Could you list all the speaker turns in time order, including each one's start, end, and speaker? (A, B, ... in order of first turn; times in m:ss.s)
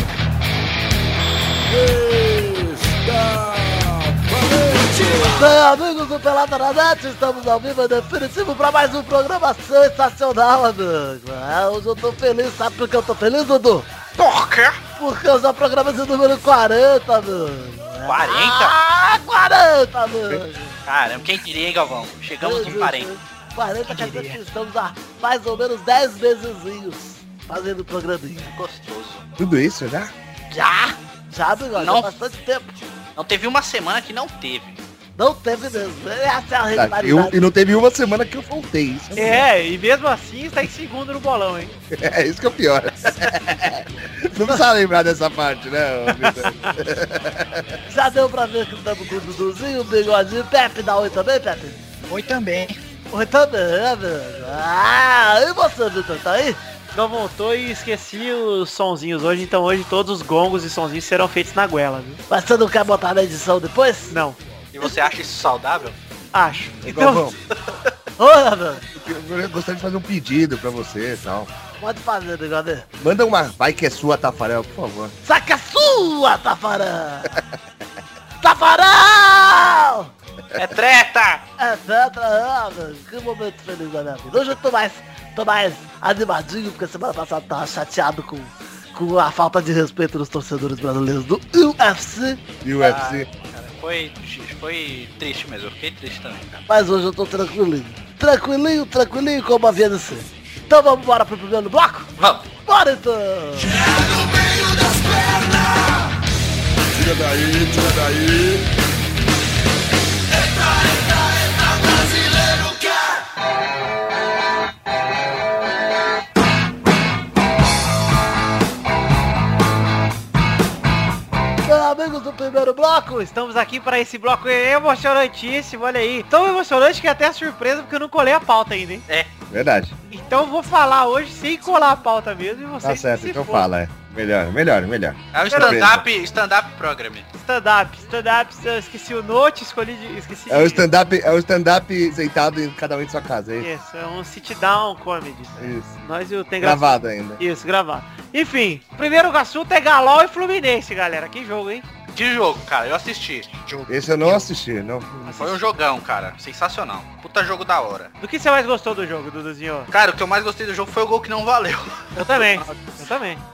0:01.7-0:05.5 A
0:05.2-0:13.9 B
0:14.2-0:14.8 C
0:15.0-0:20.8 B
0:18.0-0:18.8 C
0:20.9-0:23.1 C
0:22.4-0:28.5 B
0:23.9-0:24.4 D
0:28.4-0:29.2 C
0:29.4-0:30.1 E
0:30.5-0:32.8 B
0:31.8-0:32.1 C
0:33.2-0:34.8 C
0:35.2-0:37.3 B
0:36.7-0:39.5 E
0:39.2-0:41.7 F
0:41.9-0:47.8 E
0:46.1-0:46.7 F
0:47.9-0:51.8 B
0:52.1-0:52.8 D
0:53.1-0:56.6 B
0:56.9-1:02.2 F
1:02.3-1:04.2 B
1:04.1-1:04.4 F
1:04.7-1:06.0 C
1:04.8-1:05.1 B
1:06.3-1:07.3 F
1:06.8-1:07.4 E
1:07.5-1:07.9 C
1:08.2-1:08.8 B
1:08.9-1:11.5 E
1:11.8-1:12.9 B
1:13.0-1:15.2 E
1:15.3-1:17.4 B
1:18.4-1:20.1 B
1:20.6-1:21.4 C
1:21.6-1:32.4 B
1:32.6-1:33.3 E
1:32.8-1:36.6 C
1:36.7-1:42.1 B
1:42.2-1:42.5 C
1:42.7-1:43.9 B
1:44.9-1:45.3 A
1:46.9-1:48.7 A
2:01.6-2:03.2 B
2:03.1-2:09.0 F
2:09.5-2:10.0 E
2:10.1-2:13.7 F
2:12.8-2:16.0 E
2:15.3-2:17.3 C
2:15.5-2:15.8 F
2:17.4-2:20.9 F
2:20.5-2:23.7 E
2:23.6-2:31.8 F
2:25.6-2:25.9 E
2:26.6-2:27.4 E
2:32.2-2:33.5 C
2:33.6-2:34.5 D
2:33.9-2:35.4 E
2:35.3-2:35.6 F
2:35.4-2:38.1 C
2:38.2-2:39.9 F
2:39.9-2:42.4 C
2:42.2-2:43.4 F